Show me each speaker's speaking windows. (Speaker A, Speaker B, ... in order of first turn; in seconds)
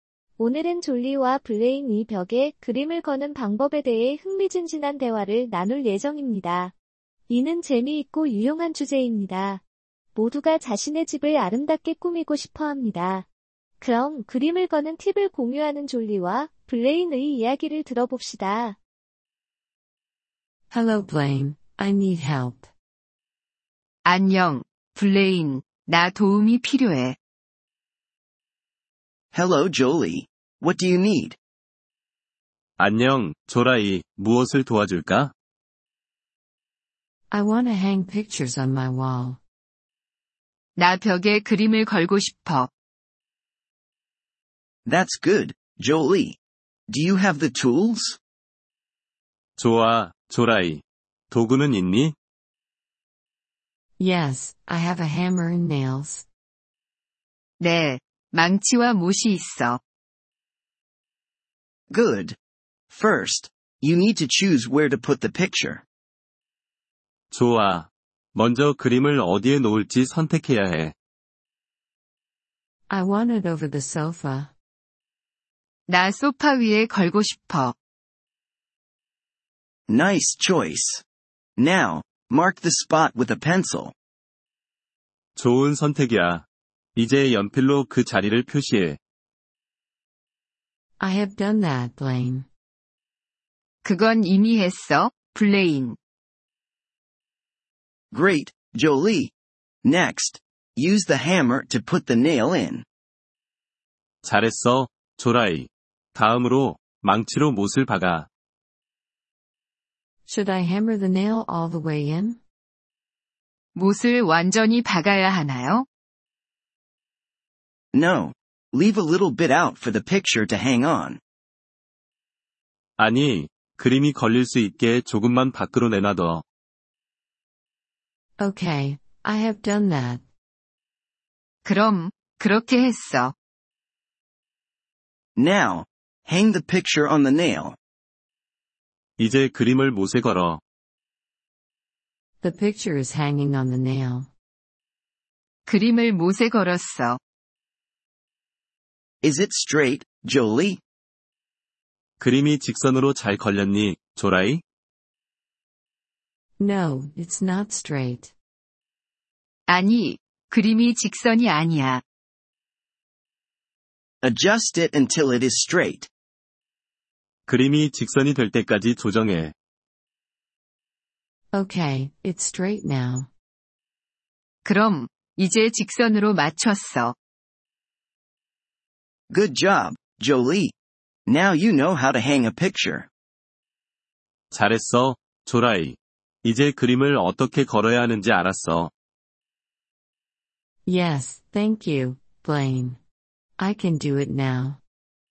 Speaker A: 0.4-6.7, 7.3-9.6, 10.1-13.2, 13.8-18.8
Speaker B: 20.7-22.7, 37.3-39.4, 54.0-56.2, 72.9-74.5, 91.0-92.5, 110.2-112.4, 128.4-130.2, 142.4-144.3, 156.6-158.3, 171.5-173.3, 190.8-193.0, 193.6-194.8
Speaker C: 24.0-27.2, 40.8-42.7, 57.6-59.8, 75.9-77.7, 93.8-96.0, 113.7-115.9, 131.6-133.3, 145.7-147.2, 159.7-162.0, 174.6-177.1
Speaker D: 29.3-31.4, 44.9-46.4, 46.9-48.2, 61.9-62.4, 62.9-65.8, 79.9-81.0, 81.6-83.9, 98.1-99.3, 99.8-102.8, 117.9-121.2, 135.3-137.8, 149.2-150.8, 164.2-166.1, 179.3-180.7, 181.3-183.1
Speaker E: 32.8-35.3, 49.6-52.1, 67.3-70.9, 85.3-89.0, 104.2-108.3, 123.0-126.4, 139.2-140.6, 152.2-154.6, 167.5-169.5, 184.5-188.9